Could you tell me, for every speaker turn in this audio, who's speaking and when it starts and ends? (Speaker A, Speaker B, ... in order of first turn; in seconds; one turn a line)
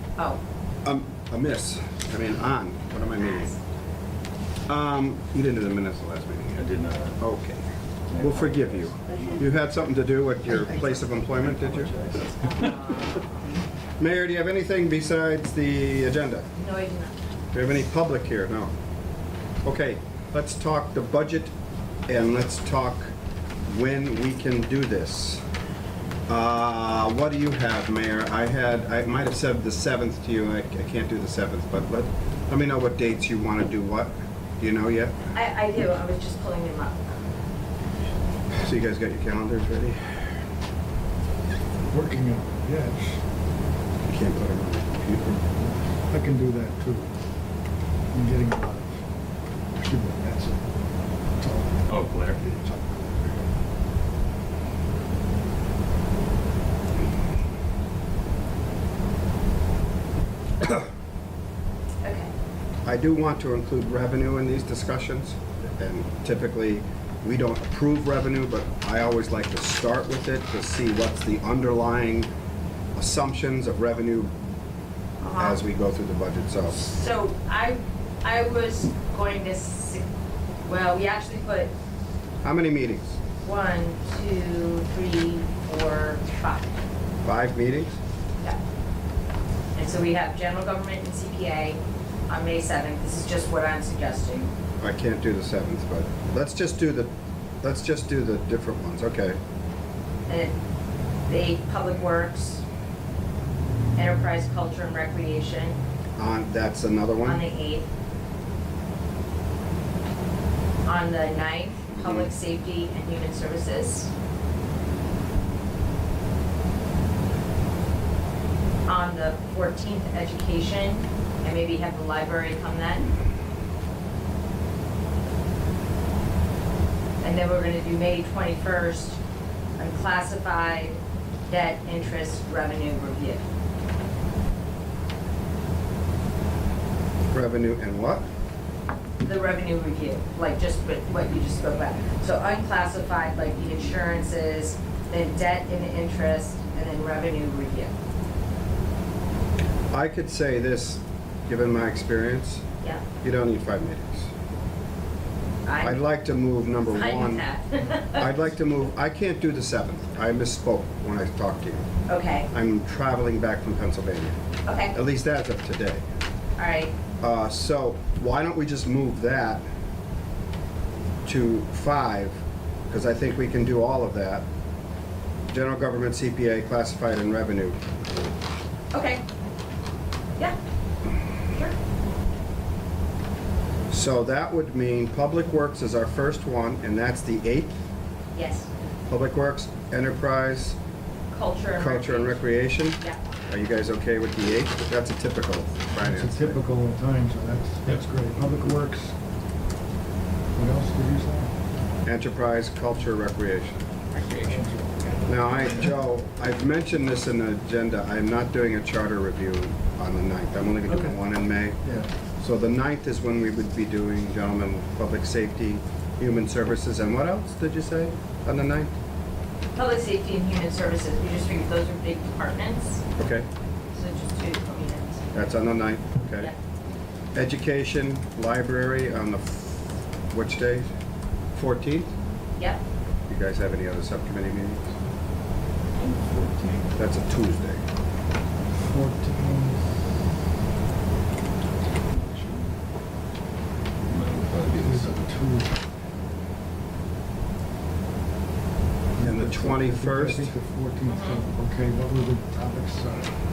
Speaker A: 0.1-0.4
Speaker B: 0.8-3.5
Speaker A: 3.2-3.6
Speaker B: 4.7-6.6
Speaker C: 6.5-7.2
Speaker B: 7.2-11.9
Speaker C: 8.1-9.7
Speaker A: 9.1-9.4
Speaker C: 10.5-12.7
Speaker A: 12.4-13.5
Speaker B: 14.0-16.5
Speaker A: 16.6-17.2
Speaker B: 17.5-18.7
Speaker B: 19.6-21.5
Speaker B: 22.1-23.1
Speaker B: 23.7-25.4
Speaker B: 26.3-35.2
Speaker A: 35.3-37.1
Speaker B: 38.5-40.3
Speaker D: 41.8-43.2
Speaker B: 44.0-45.4
Speaker D: 46.1-47.1
Speaker D: 48.1-49.0
Speaker D: 49.7-50.6
Speaker D: 51.4-53.4
Speaker C: 51.9-52.5
Speaker A: 62.0-62.3
Speaker B: 62.8-72.3
Speaker B: 73.0-74.3
Speaker A: 75.2-75.6
Speaker B: 75.3-76.8
Speaker A: 76.7-80.0
Speaker A: 80.6-81.7
Speaker B: 82.4-83.2
Speaker A: 83.4-86.7
Speaker B: 87.2-88.0
Speaker A: 89.7-94.5
Speaker B: 94.8-99.4
Speaker A: 100.3-100.5
Speaker A: 101.3-102.6
Speaker A: 104.0-105.8
Speaker B: 106.2-107.4
Speaker A: 107.2-107.9
Speaker A: 110.8-114.1
Speaker B: 111.9-112.3
Speaker A: 118.8-123.1
Speaker A: 127.2-129.2
Speaker A: 129.8-133.4
Speaker B: 137.3-138.2
Speaker A: 139.2-147.9
Speaker B: 149.9-152.6
Speaker B: 153.2-154.3
Speaker A: 155.7-156.0
Speaker B: 155.8-157.4
Speaker A: 156.9-158.3
Speaker B: 158.2-161.9
Speaker A: 162.1-162.5
Speaker B: 162.5-164.4
Speaker A: 164.6-164.9
Speaker B: 164.9-166.0
Speaker A: 166.6-166.9
Speaker B: 167.2-169.6
Speaker B: 171.2-174.4
Speaker B: 175.5-177.8
Speaker A: 178.9-179.2
Speaker B: 183.9-187.8
Speaker A: 188.3-188.7
Speaker B: 189.1-190.8
Speaker A: 191.3-193.2
Speaker B: 191.8-196.6
Speaker D: 196.0-199.2
Speaker D: 200.5-201.5
Speaker B: 202.0-203.8
Speaker C: 204.1-204.6
Speaker D: 204.4-205.9
Speaker B: 205.3-211.8
Speaker B: 212.4-218.9
Speaker A: 219.8-223.0
Speaker B: 223.2-223.5
Speaker A: 223.9-225.2
Speaker B: 225.3-226.5
Speaker B: 227.3-230.9
Speaker B: 231.5-232.1
Speaker A: 232.6-232.8
Speaker B: 233.3-234.9
Speaker A: 236.0-236.5
Speaker C: 236.3-236.9
Speaker B: 236.9-237.8
Speaker D: 238.7-240.0
Speaker C: 242.1-242.7
Speaker C: 244.1-245.4
Speaker D: 244.7-245.8
Speaker D: 249.1-253.3
Speaker B: 249.2-250.5
Speaker A: 251.0-251.4